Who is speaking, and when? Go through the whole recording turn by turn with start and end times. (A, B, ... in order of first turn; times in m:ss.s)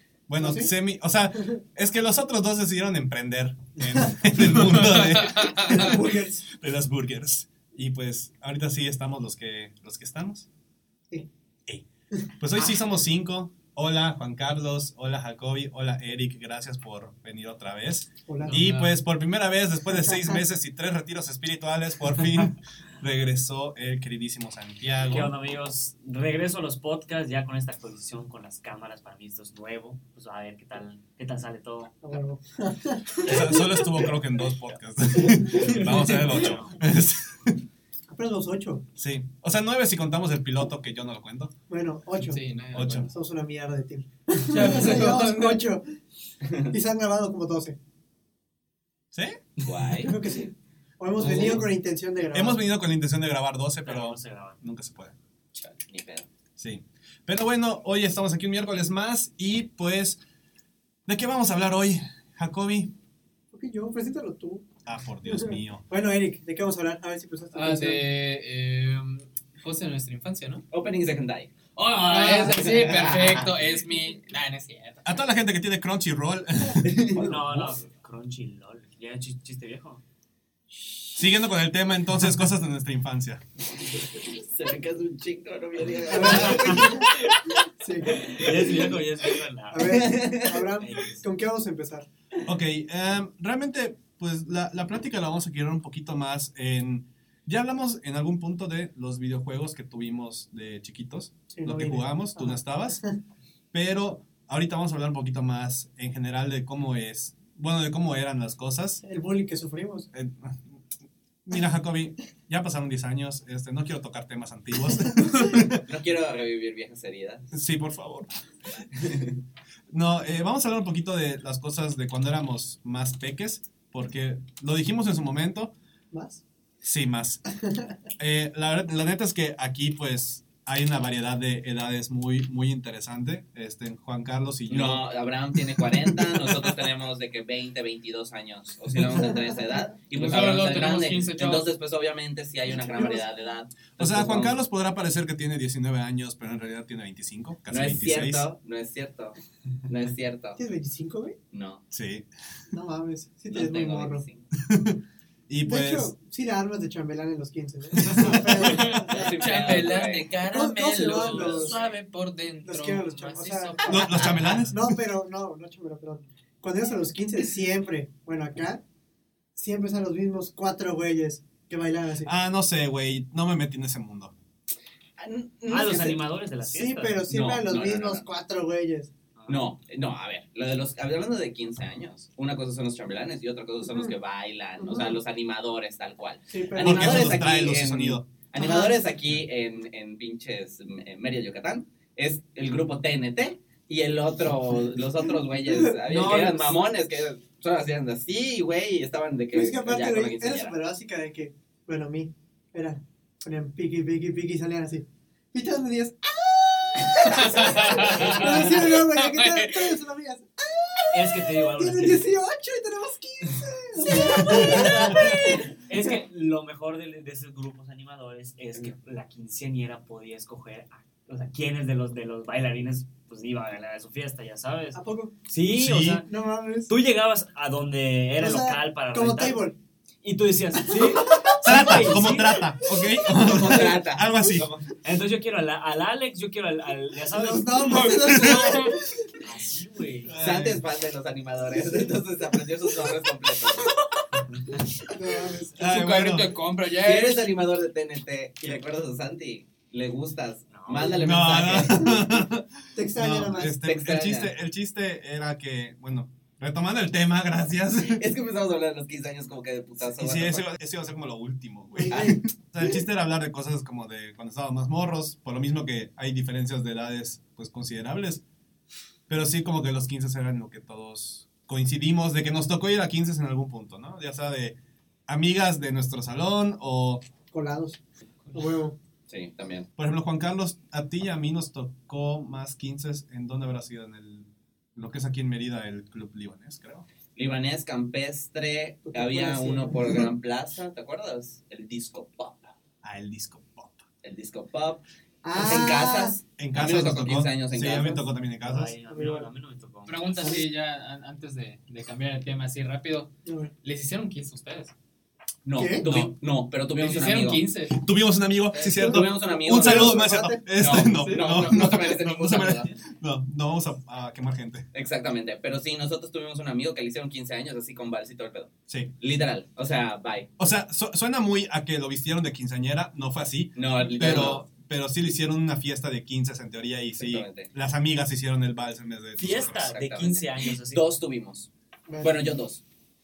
0:00.3-0:10.5 A
0:00.4-0:00.7 B
0:03.9-0:04.5 B
0:04.8-0:05.9 C
0:05.6-0:06.5 B
0:12.4-0:25.3 A
0:18.3-0:18.6 B
0:18.4-0:18.9 C
0:20.0-0:20.4 B
0:25.1-0:32.0 D
0:32.0-0:34.1 B
0:33.2-0:37.6 A
0:35.6-0:36.2 C
0:36.2-0:36.8 D
0:38.1-0:38.8 B
0:39.0-0:41.5 A
0:41.7-0:42.4 B
0:42.2-0:43.1 C
0:42.7-0:43.1 A
0:43.1-0:45.8 B
0:44.5-0:45.6 C
0:46.4-0:46.7 E
0:46.7-0:47.8 B
0:49.1-0:49.4 A
0:49.6-0:50.2 E
0:50.0-0:52.6 B
0:51.2-0:51.7 A
0:52.3-0:55.2 A
0:53.8-0:54.6 D
0:55.9-0:56.3 E
0:56.6-1:00.2 A
1:01.0-1:02.9 A
1:03.5-1:04.7 B
1:04.8-1:05.8 A
1:05.2-1:08.0 B
1:07.5-1:10.6 C
1:10.7-1:11.5 E
1:11.8-1:15.0 C
1:12.1-1:13.0 B
1:12.6-1:13.5 E
1:15.0-1:17.0 A
1:16.8-1:17.7 E
1:17.2-1:20.0 D
1:21.2-1:23.4 A
1:23.9-1:27.6 E
1:26.1-1:27.1 B
1:26.2-1:26.8 D
1:27.8-1:28.8 B
1:28.1-1:28.5 E
1:28.2-1:30.0 D
1:29.7-1:32.1 B
1:29.8-1:30.7 E
1:30.8-1:31.2 D
1:32.4-1:43.0 A
1:41.5-1:43.1 B
1:43.7-1:49.0 A
1:49.0-1:50.1 B
1:50.1-1:50.8 A
1:51.4-1:55.8 A
1:55.8-1:57.5 E
1:57.5-1:58.3 A
1:58.9-1:59.4 E
1:59.9-2:05.7 A
2:06.1-2:06.4 B
2:06.8-2:07.4 A
2:07.6-2:07.9 B
2:08.2-2:15.0 A
2:14.7-2:24.6 E
2:15.6-2:16.8 A
2:19.2-2:19.5 B
2:20.1-2:21.7 C
2:22.7-2:23.2 B
2:24.0-2:28.4 A
2:27.7-2:30.6 E
2:30.6-2:31.4 B
2:31.5-2:31.8 E
2:31.9-2:32.3 A
2:32.7-2:34.2 B
2:33.5-2:34.4 E
2:34.5-2:36.1 A
2:35.6-2:41.8 B
2:37.9-2:38.9 A
2:38.6-2:44.6 C
2:38.9-2:40.3 E
2:41.0-2:41.9 E
2:42.6-2:48.8 B
2:43.9-2:44.9 A
2:49.6-2:52.3 B
2:52.2-2:54.3 A
2:55.2-2:56.2 E
2:55.7-2:57.2 D
2:55.7-2:59.1 B
2:57.3-2:58.3 E
2:59.4-2:59.7 D
2:59.5-3:20.7 E
3:04.8-3:05.2 B
3:06.5-3:07.4 B
3:06.8-3:08.2 A
3:08.6-3:08.9 B
3:16.1-3:16.8 A
3:19.5-3:36.0 B
3:27.1-3:30.0 C
3:28.1-3:28.6 D
3:31.1-3:32.2 D
3:34.0-3:46.3 D
3:44.9-3:45.3 B
3:45.7-3:46.2 A
3:46.2-3:46.9 B
3:46.9-3:49.6 D
3:48.4-3:49.8 B
3:50.2-3:52.7 D
3:50.9-3:53.5 B
3:51.6-3:54.7 A
3:53.4-3:54.8 E
3:55.0-3:58.1 D
3:57.3-3:59.4 B
3:57.8-3:59.0 C
3:58.2-3:58.7 A
3:59.4-4:00.4 D
4:00.2-4:00.8 A
4:00.4-4:03.9 E
4:05.1-4:05.9 B
4:05.8-4:07.4 C
4:05.8-4:06.5 A
4:07.0-4:12.2 E
4:10.7-4:11.2 D
4:11.1-4:18.2 A
4:11.9-4:12.2 B
4:12.9-4:13.7 B
4:13.6-4:14.5 E
4:18.1-4:20.7 E
4:20.2-4:28.4 A
4:22.0-4:22.4 B
4:22.1-4:22.4 E
4:29.3-4:34.8 A
4:35.3-4:37.2 A
4:37.5-4:38.0 B
4:38.5-4:39.0 B
4:39.3-4:39.9 E
4:40.0-4:47.0 A
4:47.4-4:52.7 E
4:49.0-4:50.2 B
4:53.0-4:54.0 A
4:54.2-4:58.2 E
4:55.4-4:56.4 B
4:56.6-4:59.0 A
4:58.6-5:00.3 D
4:59.1-4:59.5 B
5:00.0-5:03.3 C
5:03.4-5:03.7 B
5:03.8-5:04.9 C
5:05.6-5:07.6 E
5:05.7-5:06.0 B
5:06.0-5:06.3 A
5:07.0-5:08.0 C
5:07.9-5:14.8 A
5:08.8-5:12.9 E
5:08.8-5:10.7 B
5:11.2-5:11.5 C
5:14.9-5:20.5 E
5:18.9-5:19.1 A
5:20.6-5:29.9 A
5:23.7-5:24.6 E
5:27.2-5:27.7 E
5:29.4-5:31.1 D
5:29.8-5:31.7 E
5:32.1-5:32.4 B
5:32.2-5:32.8 E